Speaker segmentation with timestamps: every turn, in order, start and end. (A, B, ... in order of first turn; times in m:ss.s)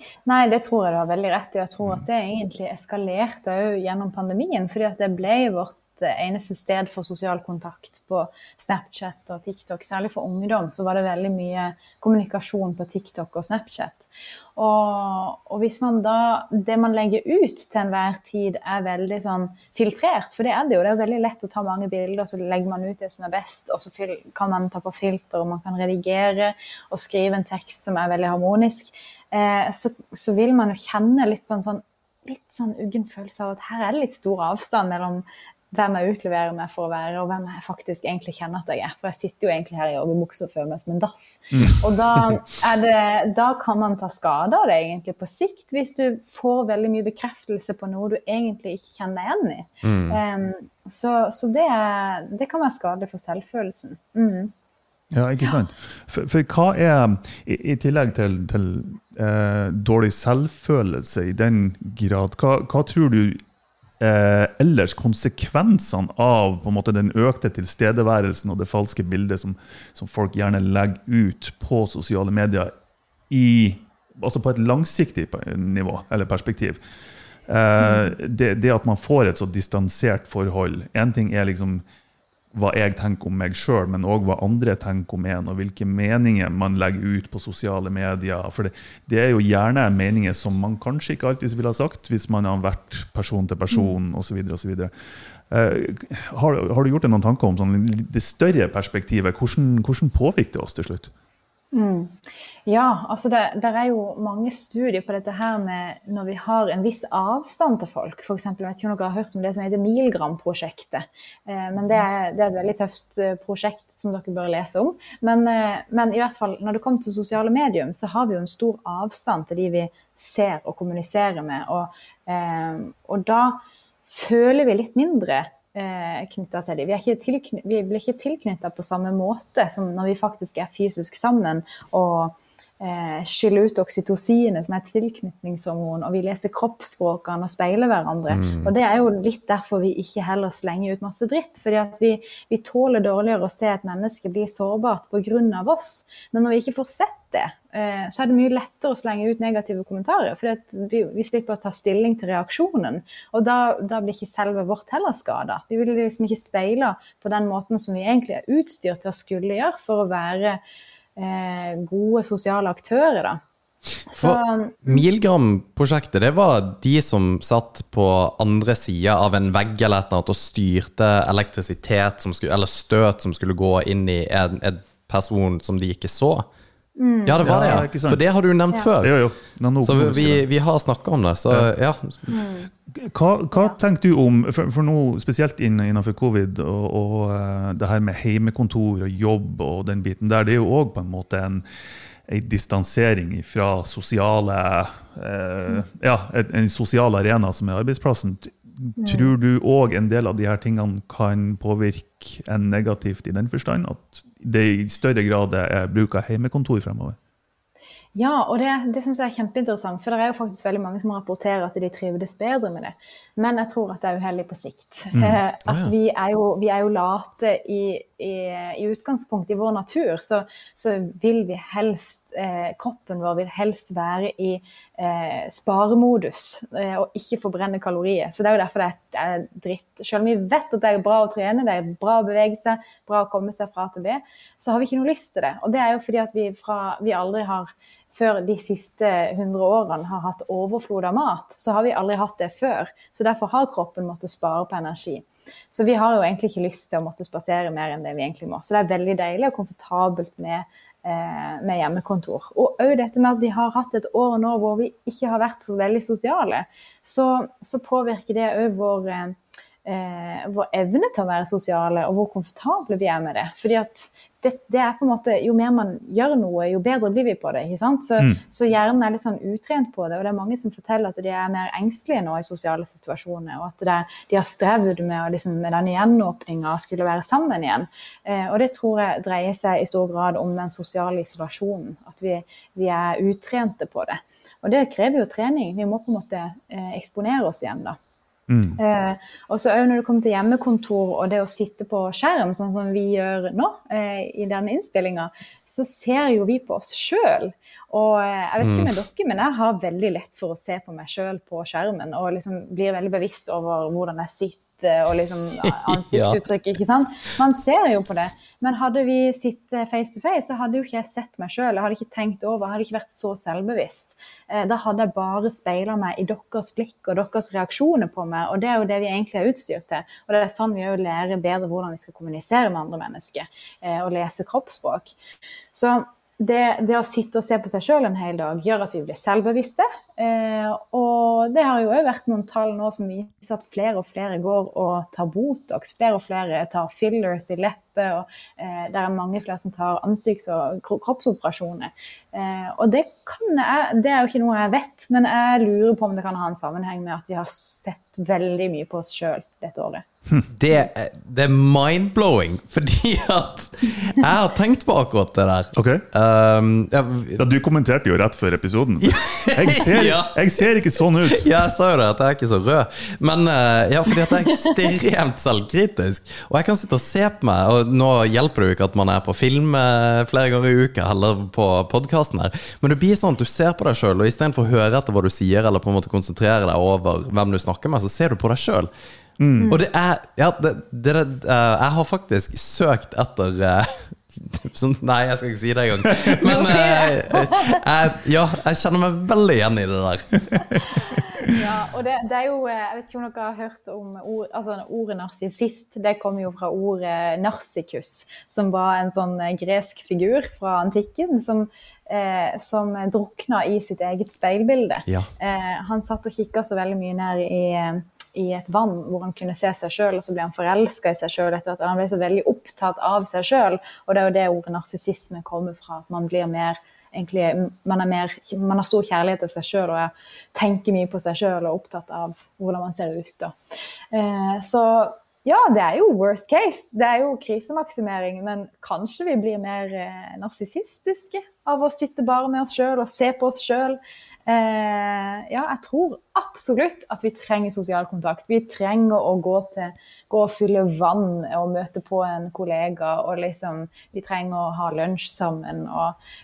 0:00.2-0:54.5 A
0:49.8-0:50.2 B
0:55.1-1:03.4 C
1:04.0-1:12.7 C
1:13.3-1:16.8 C
1:17.5-1:21.8 C
1:17.8-1:18.1 A
1:22.5-1:34.9 C
1:35.5-1:41.1 C
1:41.7-2:40.6 A
2:18.3-2:18.7 B
2:41.2-2:43.4 A
2:44.1-2:45.0 A
2:44.1-2:56.4 B
2:57.0-2:57.8 A
2:57.2-2:59.2 B
2:57.4-2:58.2 C
2:59.0-3:00.4 C
2:59.8-3:02.3 B
3:02.3-3:02.7 A
3:02.9-3:11.6 C
3:12.3-3:27.2 C
3:19.0-3:19.3 A
3:28.1-4:48.0 A
3:35.1-3:35.4 C
3:35.7-3:35.9 B
4:48.5-4:48.8 C
4:48.8-5:25.1 A
4:58.6-4:58.9 B
5:05.6-5:06.5 B
5:25.7-5:50.0 A
5:50.5-5:57.4 B
5:55.8-5:56.0 C
5:57.4-6:01.6 C
5:59.0-6:00.4 B
6:01.3-6:18.9 B
6:19.4-6:19.7 C
6:19.7-6:30.4 B
6:26.4-6:27.8 A
6:30.8-7:03.5 A
7:04.1-7:26.2 A